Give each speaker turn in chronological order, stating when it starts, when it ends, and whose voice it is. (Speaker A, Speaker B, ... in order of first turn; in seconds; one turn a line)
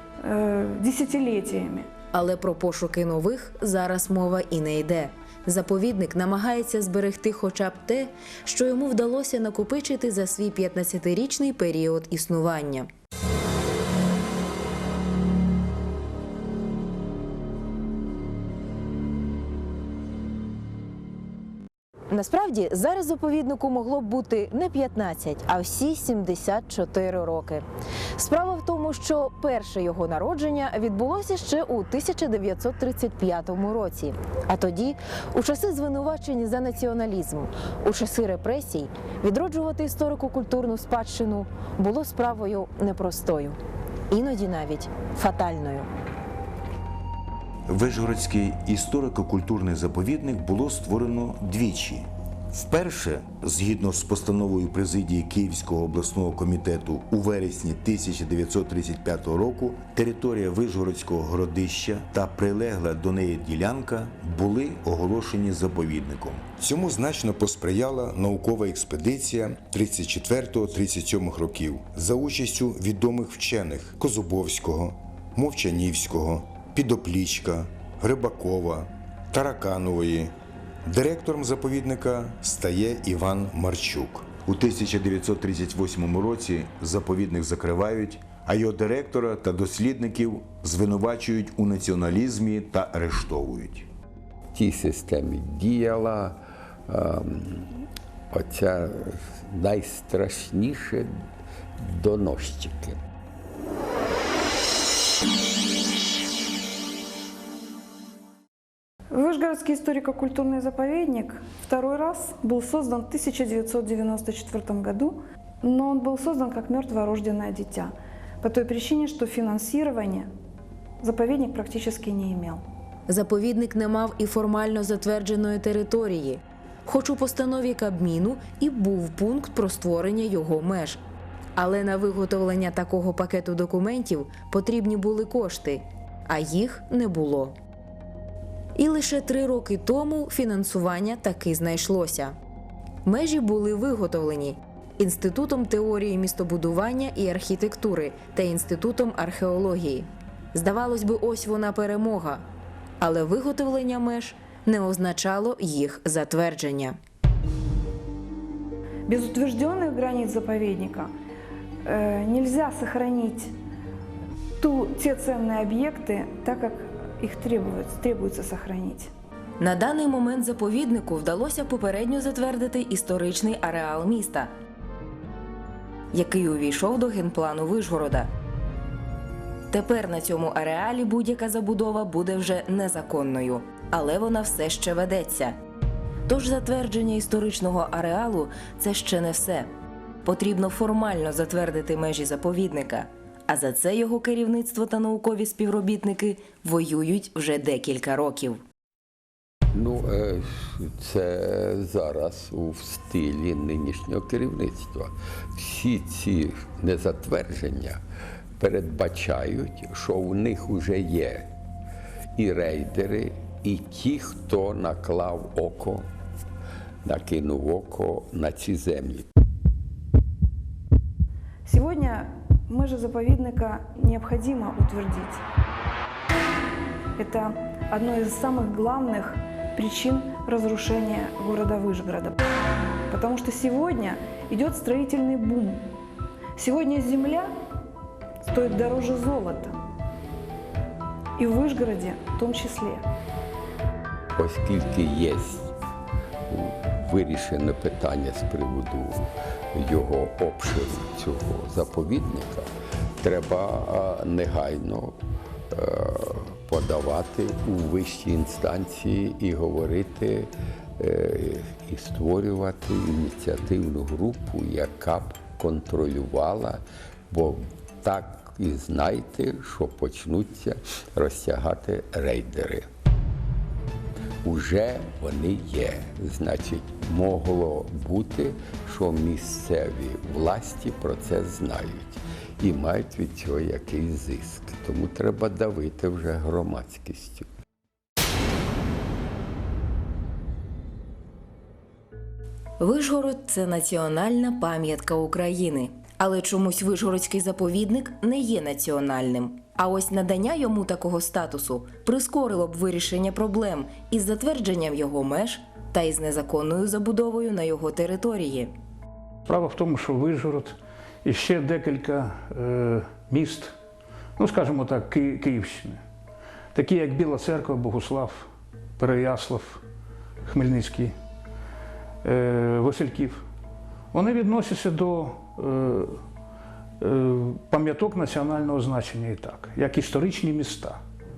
Speaker A: 0.2-1.9
Speaker B: 2.1-12.9
Speaker B: 22.1-27.6
Speaker B: 28.2-43.6
Speaker B: 44.1-45.9
Speaker C: 47.7-80.3
Speaker C: 80.9-93.9
Speaker D: 94.5-97.8
Speaker D: 98.3-101.2
Speaker D: 101.8-103.0
Speaker A: 109.1-120.3
Speaker A: 121.0-122.6
Speaker B: 123.1-131.0
Speaker B: 131.6-137.6
Speaker B: 138.8-142.4
Speaker B: 143.1-152.4
Speaker B: 153.0-157.0
Speaker A: 159.1-161.1
Speaker A: 161.8-163.6
Speaker A: 164.6-169.1
Speaker B: 169.6-174.5
Speaker B: 176.1-178.3
Speaker B: 179.7-185.6
Speaker B: 186.3-189.7
Speaker B: 190.2-198.6
Speaker D: 199.7-208.0
Speaker D: 208.6-211.5
Speaker D: 212.4-216.1
Speaker D: 217.0-219.3
Speaker A: 221.7-225.4
Speaker A: 227.2-232.4
Speaker A: 233.1-235.9
Speaker A: 236.6-237.5
Speaker A: 238.5-239.8
Speaker A: 241.4-243.1
Speaker D: 244.3-245.7
Speaker D: 246.5-252.7
Speaker D: 253.2-255.2
Speaker D: 255.7-272.9
Speaker D: 274.4-287.5
Speaker B: 292.8-308.7
Speaker E: 309.5-313.7
Speaker E: 314.4-316.0
Speaker E: 316.7-318.5
Speaker E: 319.0-319.8
Speaker E: 320.5-321.1
Speaker E: 322.2-323.4
Speaker E: 324.1-326.2
Speaker E: 327.0-331.0